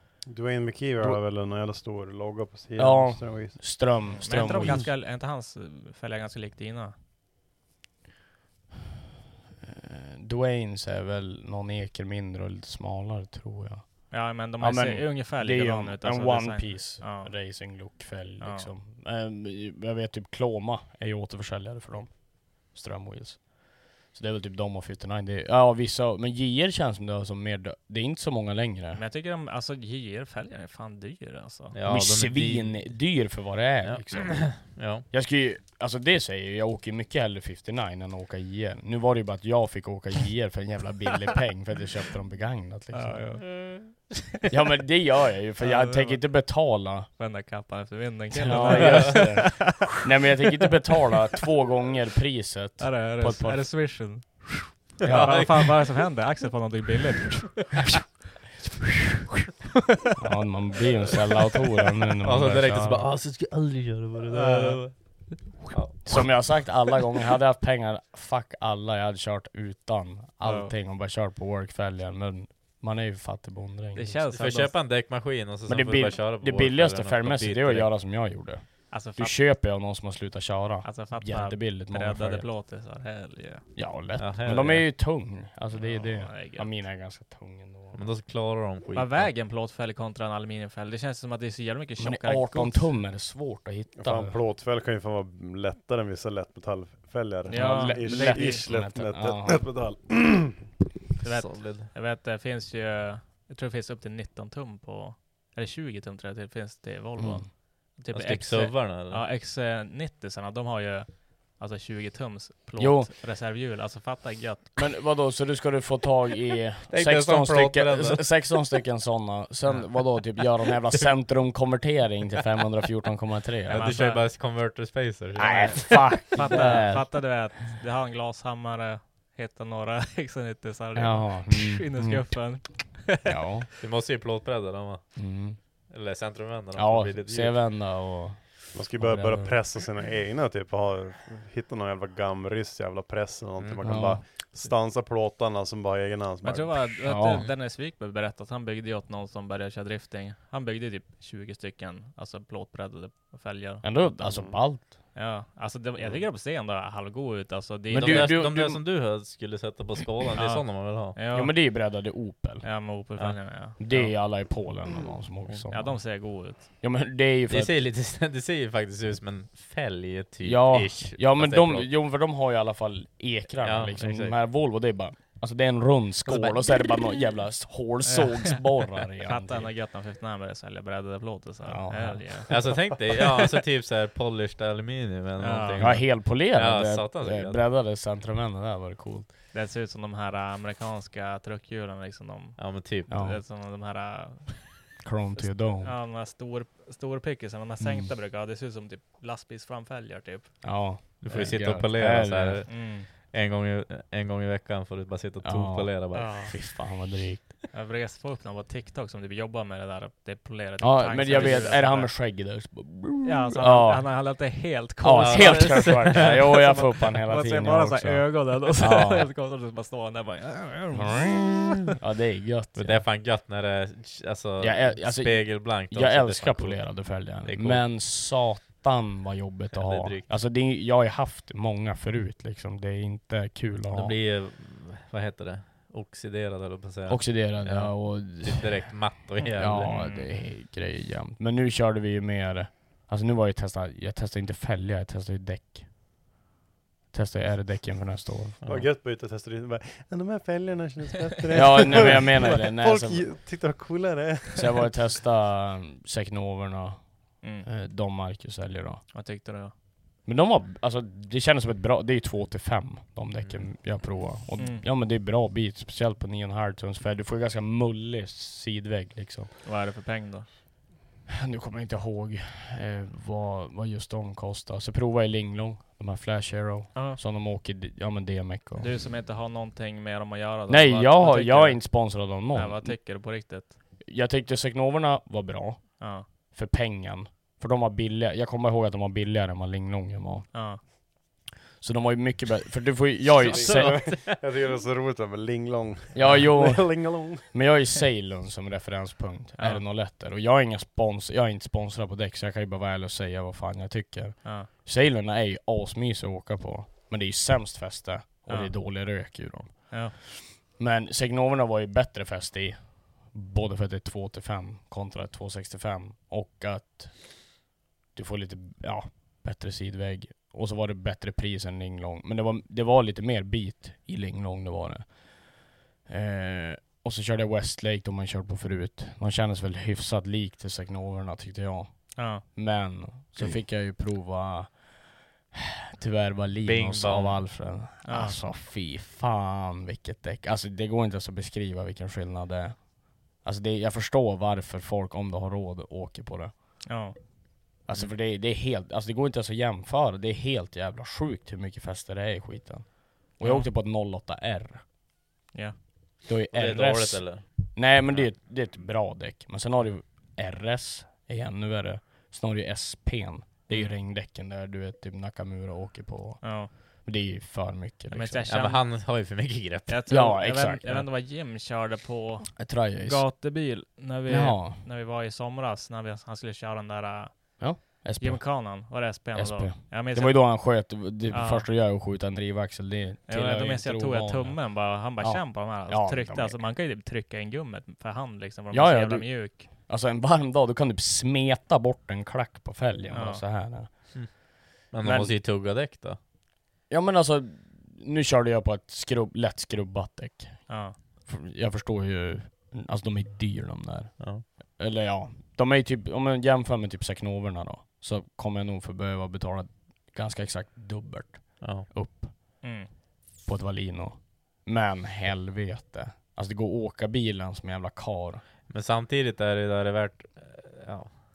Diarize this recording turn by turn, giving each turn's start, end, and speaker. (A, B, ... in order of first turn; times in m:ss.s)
0:00.2-0:03.8 A
0:02.8-0:04.9 B
0:04.1-0:06.9 C
0:04.3-0:04.8 A
0:09.6-0:29.0 B
0:14.1-0:17.6 C
0:18.4-0:18.7 C
0:28.9-0:31.7 C
0:31.7-0:32.9 D
0:31.8-0:43.3 B
0:33.8-0:35.0 D
0:42.9-0:43.5 C
0:43.4-0:44.0 D
0:44.5-0:47.1 B
0:45.6-0:46.2 C
0:47.2-0:49.8 C
0:48.3-0:53.9 B
0:48.6-0:49.3 D
0:52.8-0:58.0 C
0:55.0-0:55.8 D
0:55.0-0:55.5 B
1:00.2-1:03.1 B
1:02.2-1:06.6 D
1:04.3-1:05.2 C
1:06.0-1:14.3 B
1:10.4-1:10.7 C
1:13.9-1:14.7 C
1:14.3-1:17.9 D
1:15.7-1:22.5 B
1:18.9-1:19.4 C
1:20.8-1:23.7 C
1:23.7-1:28.0 B
1:24.2-1:24.9 D
1:25.7-1:26.7 C
1:27.9-1:29.3 D
1:28.9-1:32.9 C
1:32.0-1:34.3 B
1:34.0-1:40.7 A
1:37.4-1:38.6 C
1:37.5-1:39.7 B
1:41.2-1:54.8 C
1:41.2-1:41.9 D
1:47.2-1:47.5 B
1:48.1-1:49.2 D
1:52.8-1:53.1 B
1:54.8-2:04.0 B
1:56.9-1:58.3 D
2:03.7-2:07.0 D
2:03.7-2:04.2 C
2:05.4-2:07.1 B
2:05.7-2:13.4 C
2:11.0-2:12.5 B
2:13.2-2:13.7 B
2:13.8-2:15.1 D
2:15.2-2:15.6 B
2:15.9-2:17.6 D
2:16.7-2:19.6 B
2:18.7-2:26.9 A
2:23.6-2:23.9 D
2:23.8-2:24.2 B
2:26.4-2:34.2 C
2:27.0-2:27.4 B
2:33.8-2:34.9 B
2:35.1-2:38.4 C
2:37.9-2:38.8 B
2:37.9-2:41.2 D
2:40.3-2:41.8 C
2:41.3-2:42.7 B
2:42.6-2:44.1 C
2:43.2-2:43.4 D
2:43.8-2:47.7 B
2:45.7-2:46.7 C
2:47.5-2:51.9 D
2:50.4-2:59.7 B
2:53.6-2:54.4 D
2:56.3-2:56.7 D
2:58.0-3:02.5 C
3:01.6-3:02.5 B
3:02.5-3:07.6 D
3:05.4-3:06.0 C
3:05.8-3:09.3 B
3:09.5-3:20.7 C
3:12.6-3:13.1 D
3:13.1-3:13.4 B
3:15.0-3:15.9 B
3:17.8-3:18.1 B
3:20.6-3:22.6 B
3:21.2-3:26.4 D
3:22.7-3:23.1 C
3:25.4-3:27.5 B
3:26.1-3:26.6 C
3:27.7-3:32.2 C
3:30.8-3:34.3 B
3:33.2-3:41.5 C
3:35.0-3:39.3 B
3:35.2-3:36.5 D
3:40.9-3:43.1 B
3:42.8-3:47.8 D
3:44.6-3:54.2 B
3:49.7-3:50.3 D
3:53.9-3:59.9 D
3:57.1-4:05.9 B
3:59.4-4:00.3 C
4:07.1-4:08.6 B
4:08.6-4:08.9 D
4:08.6-4:14.9 A
4:11.5-4:13.3 B
4:14.6-4:19.0 B
4:17.4-4:17.7 C
4:19.1-4:19.7 C
4:20.2-4:29.5 B
4:23.4-4:23.7 D
4:24.6-4:24.8 C
4:29.6-4:30.5 C
4:31.4-4:38.9 B
4:36.9-4:37.2 C
4:38.8-4:43.8 C
4:40.7-4:43.1 B
4:44.0-4:50.8 B
4:46.0-4:46.2 C
4:50.5-4:50.8 C
4:51.8-4:53.9 B
4:53.4-4:54.5 D
4:53.4-4:57.5 A
4:56.1-5:17.6 B
5:08.5-5:08.7 C
5:18.1-5:46.8 B
5:32.2-5:32.4 C
5:36.6-5:37.7 D
5:38.0-5:38.4 C
5:46.9-5:47.2 C
5:47.8-5:54.8 B
5:53.4-5:53.7 C
5:56.3-6:08.4 B
5:56.5-5:57.5 D
6:03.7-6:04.0 C
6:06.4-6:06.7 C
6:08.1-6:08.8 C
6:08.5-6:10.0 D
6:09.9-6:20.7 C
6:10.1-6:11.1 B
6:12.6-6:13.3 B
6:14.3-6:14.8 B
6:17.6-6:26.6 B
6:21.3-6:21.7 C
6:23.3-6:29.7 C
6:28.7-6:34.4 B
6:33.1-6:33.4 C
6:34.9-6:36.2 D
6:35.0-6:35.3 B
6:36.9-6:52.7 B
6:40.7-6:41.0 C
6:44.2-6:44.4 D
6:51.6-6:51.9 D
6:52.6-6:52.9 C
6:53.4-6:58.4 B
6:58.7-7:01.1 D